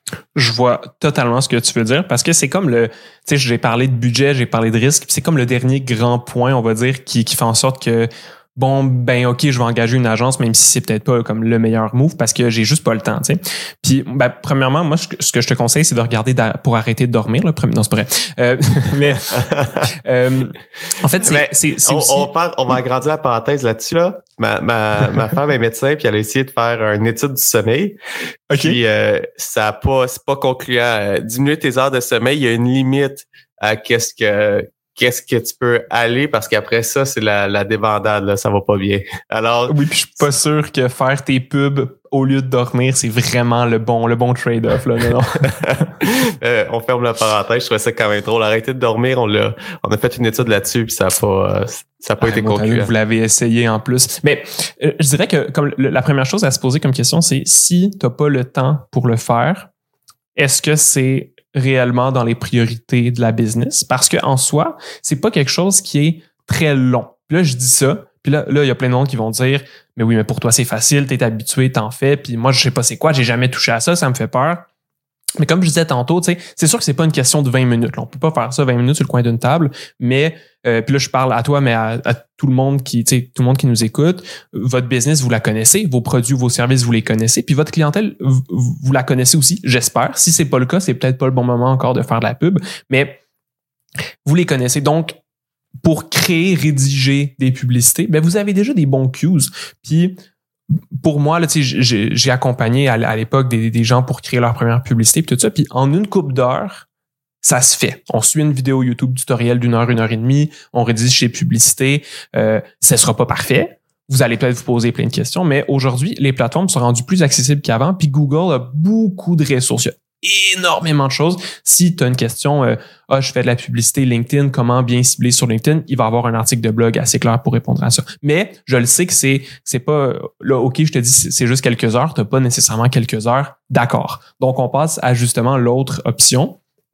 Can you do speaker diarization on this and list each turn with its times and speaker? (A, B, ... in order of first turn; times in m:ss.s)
0:00.4-0:22.3 A
0:19.4-0:19.7 B
0:21.2-0:28.0 B
0:28.5-0:28.8 A
0:28.5-0:39.7 B
0:39.7-0:45.9 A
0:45.6-0:52.9 B
0:52.2-0:59.7 A
1:00.4-1:14.7 A
1:15.4-1:33.2 A
1:34.2-1:35.2 A
1:35.8-1:40.2 A
1:41.0-1:46.9 A
1:47.4-2:16.6 A